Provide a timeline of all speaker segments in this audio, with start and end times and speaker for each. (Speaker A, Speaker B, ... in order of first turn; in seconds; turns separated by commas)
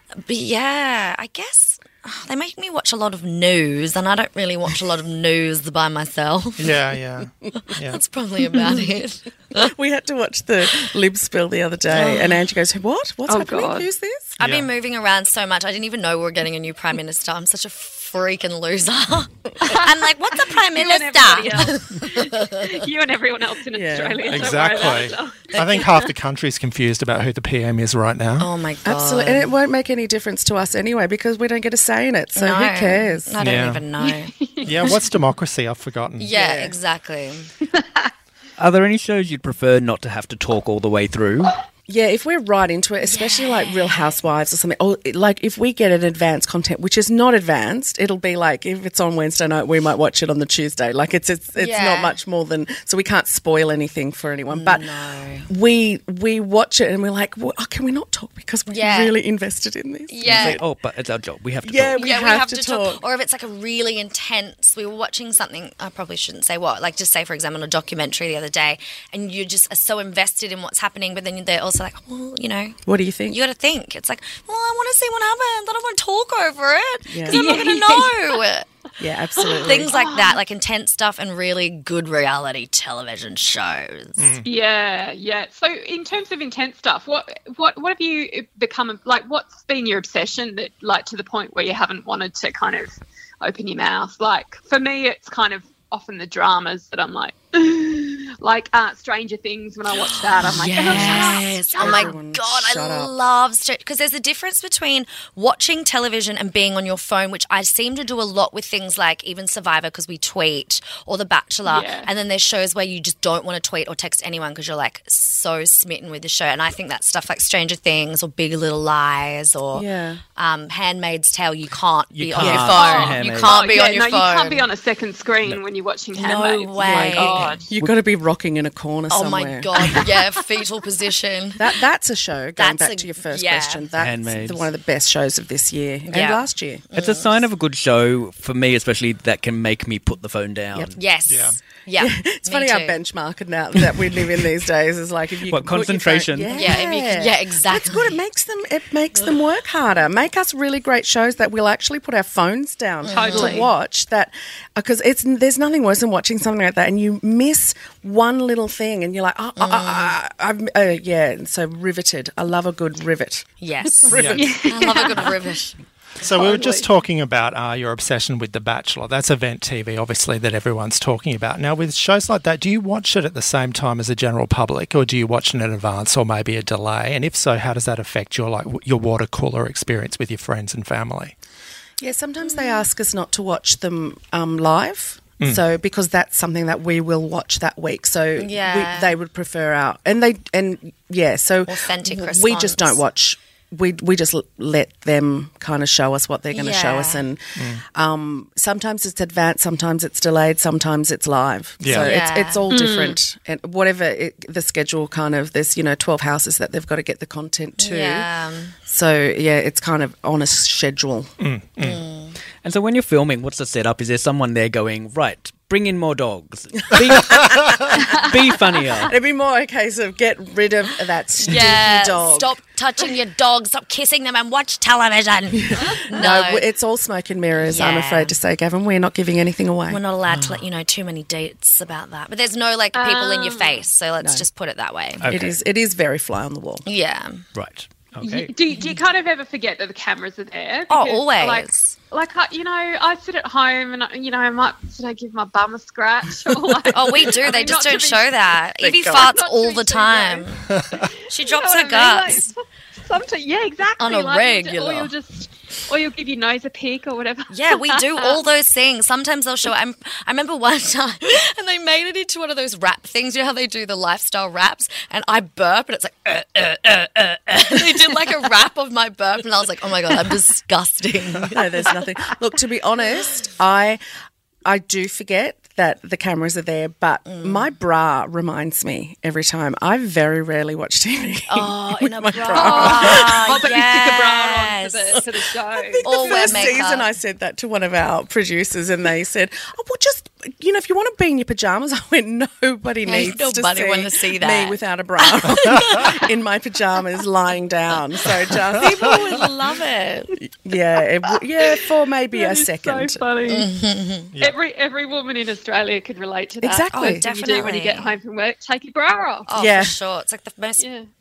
Speaker A: 0.2-6.8, Speaker B: 6.6-8.0, Speaker C: 7.2-7.5, Speaker A: 7.8-9.7, Speaker C: 9.5-14.4, Speaker A: 11.9-12.3, Speaker D: 13.3-13.9, Speaker B: 14.4-14.7, Speaker A: 14.4-22.8, Speaker D: 19.6-26.1, Speaker C: 23.7-24.6, Speaker B: 24.3-28.5, Speaker A: 25.5-25.8, Speaker A: 28.4-29.5, Speaker C: 28.8-33.3, Speaker A: 32.4-34.3, Speaker B: 33.4-33.8, Speaker D: 34.0-35.1, Speaker B: 34.6-36.3, Speaker A: 36.2-37.5, Speaker C: 36.3-36.8, Speaker D: 37.7-38.0, Speaker E: 38.6-41.6, Speaker C: 41.9-54.9, Speaker A: 43.0-44.1, Speaker A: 51.5-52.1, Speaker A: 54.5-55.5, Speaker C: 55.5-60.6, Speaker A: 58.7-59.1, Speaker A: 60.1-60.6, Speaker E: 60.2-62.0, Speaker C: 61.6-63.0, Speaker A: 61.9-78.7, Speaker C: 72.8-73.4, Speaker C: 77.1-77.4, Speaker D: 77.3-78.4, Speaker C: 79.0-79.9, Speaker D: 79.4-80.4, Speaker A: 79.5-84.3, Speaker B: 84.2-84.5, Speaker D: 84.4-102.1, Speaker A: 100.0-124.7, Speaker C: 100.8-103.1, Speaker D: 111.7-112.1, Speaker C: 119.7-120.2, Speaker E: 122.1-123.6, Speaker D: 122.4-127.6, Speaker A: 126.2-127.6, Speaker C: 126.8-130.0, Speaker A: 129.1-131.7, Speaker C: 131.6-136.9, Speaker A: 132.6-133.8, Speaker E: 134.0-134.7, Speaker A: 136.1-137.4, Speaker E: 136.9-141.0, Speaker A: 140.9-143.0, Speaker B: 141.3-141.6, Speaker C: 142.0-163.5, Speaker E: 145.5-146.6, Speaker A: 146.5-148.2, Speaker A: 153.1-153.7, Speaker D: 153.1-153.7, Speaker A: 159.6-160.1, Speaker A: 163.6-165.8, Speaker C: 164.0-165.3, Speaker B: 164.1-164.4, Speaker D: 164.3-165.3, Speaker B: 166.2-181.3, Speaker D: 166.2-166.9, Speaker C: 182.0-208.3, Speaker A: 182.5-182.8, Speaker A: 188.4-189.2, Speaker A: 191.7-193.0, Speaker A: 196.5-197.2, Speaker B: 197.6-197.8, Speaker B: 201.8-202.1, Speaker A: 201.9-202.7, Speaker D: 202.7-203.2, Speaker A: 207.8-208.7, Speaker C: 208.8-211.3, Speaker B: 211.4-212.0, Speaker A: 211.8-212.4, Speaker E: 212.6-219.1, Speaker C: 216.9-217.6, Speaker C: 219.0-222.5, Speaker A: 221.4-226.6, Speaker C: 225.7-230.0, Speaker A: 227.6-228.3, Speaker A: 229.9-235.3, Speaker E: 230.3-230.6, Speaker D: 232.9-233.8, Speaker E: 235.2-235.6, Speaker C: 235.3-236.8, Speaker A: 236.8-237.4, Speaker E: 237.5-238.5, Speaker D: 238.2-250.5, Speaker A: 240.9-241.9, Speaker A: 246.9-250.7, Speaker C: 248.8-249.3, Speaker D: 251.0-258.4, Speaker A: 251.3-252.5, Speaker A: 254.0-255.1, Speaker A: 257.5-272.1, Speaker C: 271.4-274.0, Speaker C: 274.6-283.6, Speaker A: 277.2-277.7, Speaker A: 281.5-285.2, Speaker D: 282.3-286.7, Speaker C: 285.9-299.4, Speaker A: 286.0-287.1, Speaker A: 293.1-296.2, Speaker A: 298.7-300.3, Speaker C: 300.6-303.2, Speaker D: 302.3-303.7, Speaker A: 303.4-304.3, Speaker D: 304.4-309.5, Speaker C: 306.6-307.2, Speaker A: 306.9-308.1, Speaker A: 309.5-310.8, Speaker C: 309.5-309.9, Speaker D: 310.8-311.1